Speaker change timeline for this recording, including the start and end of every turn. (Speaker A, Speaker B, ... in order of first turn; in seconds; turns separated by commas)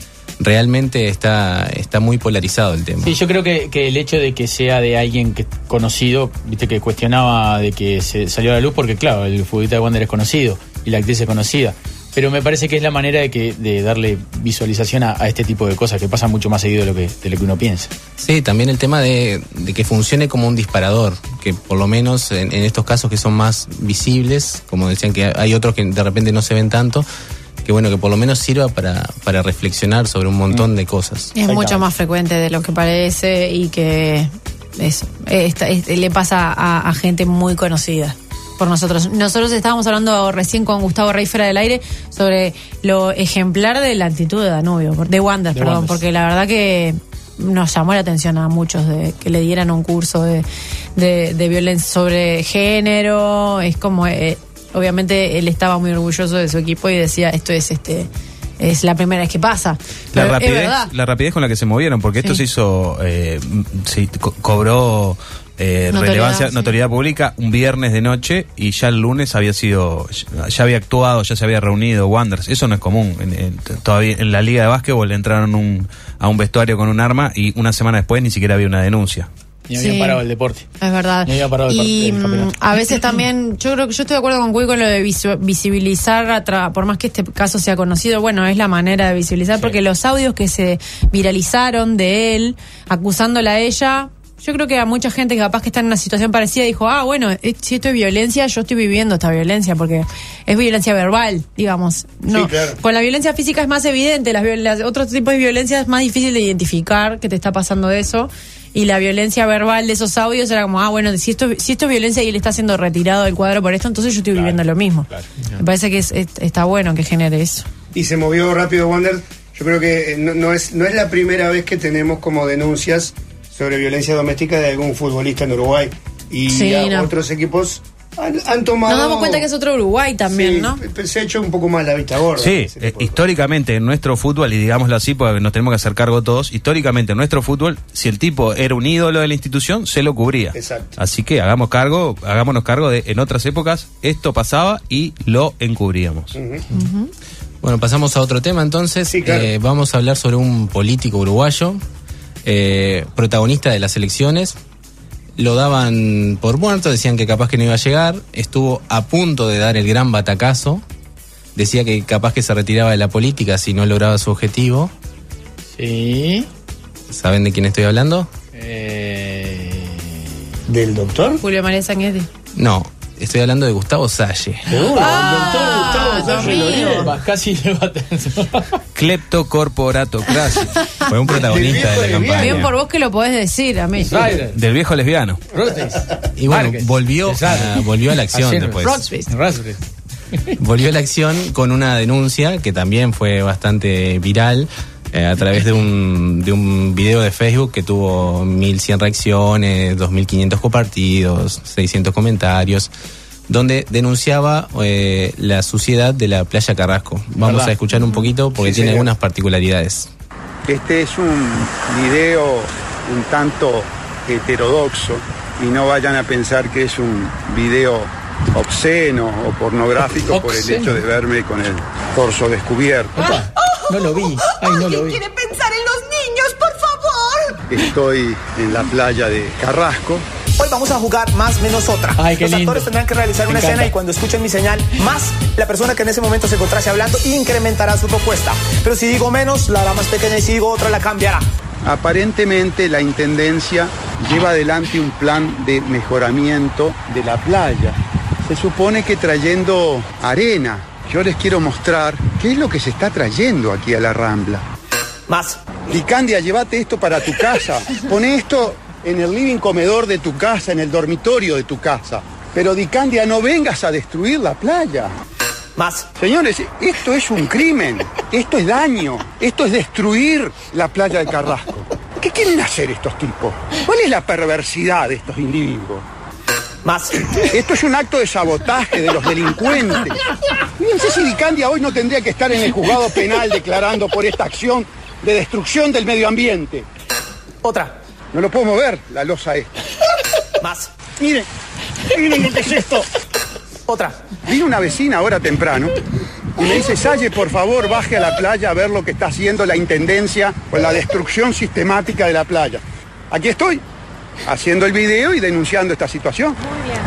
Speaker A: 0.4-3.2, Speaker B: 3.0-17.9, Speaker A: 18.2-27.1, Speaker A: 27.6-31.3, Speaker C: 31.3-50.5, Speaker B: 31.5-31.8, Speaker B: 45.5-46.0, Speaker C: 51.0-60.9, Speaker D: 60.1-79.3, Speaker C: 65.9-66.8, Speaker B: 79.7-80.7, Speaker C: 79.8-80.2, Speaker C: 80.8-117.7, Speaker B: 81.2-83.0, Speaker E: 102.3-102.8, Speaker E: 117.9-129.5, Speaker C: 126.5-127.1, Speaker C: 128.9-130.8, Speaker E: 130.3-133.3, Speaker D: 132.4-146.4, Speaker E: 140.5-141.0, Speaker E: 146.3-146.6, Speaker C: 146.8-147.1, Speaker A: 147.6-151.8, Speaker E: 149.1-149.5, Speaker A: 152.4-154.6, Speaker A: 155.4-160.8, Speaker A: 161.6-164.9, Speaker B: 165.8-166.5, Speaker A: 167.1-168.3, Speaker B: 168.5-170.3, Speaker E: 170.7-171.4, Speaker C: 171.4-172.3, Speaker A: 172.6-174.8, Speaker E: 174.7-177.1, Speaker C: 175.0-177.1, Speaker B: 175.0-178.8, Speaker D: 178.9-180.7, Speaker A: 181.1-182.7, Speaker E: 181.5-182.7, Speaker C: 182.4-184.2, Speaker B: 184.0-184.6, Speaker D: 184.5-185.4, Speaker B: 185.5-189.8, Speaker A: 186.4-189.1, Speaker A: 190.6-202.9, Speaker A: 203.5-210.1, Speaker B: 207.4-207.7, Speaker F: 210.7-223.2, Speaker B: 220.3-221.0, Speaker B: 223.2-225.2, Speaker F: 227.7-230.2, Speaker G: 230.6-241.5, Speaker B: 232.2-232.9, Speaker B: 233.5-233.9, Speaker F: 241.8-254.7, Speaker G: 255.3-255.6, Speaker F: 255.9-265.1, Speaker G: 265.8-266.1, Speaker F: 266.2-276.1, Speaker G: 276.8-277.3, Speaker F: 277.5-280.2, Speaker F: 280.8-286.9, Speaker G: 287.6-287.9, Speaker F: 288.3-289.7, Speaker G: 290.6-290.9, Speaker F: 291.2-291.5, Speaker F: 292.1-293.1, Speaker G: 293.9-294.2, Speaker F: 294.5-296.0, Speaker F: 296.6-303.8, Speaker F: 304.5-306.6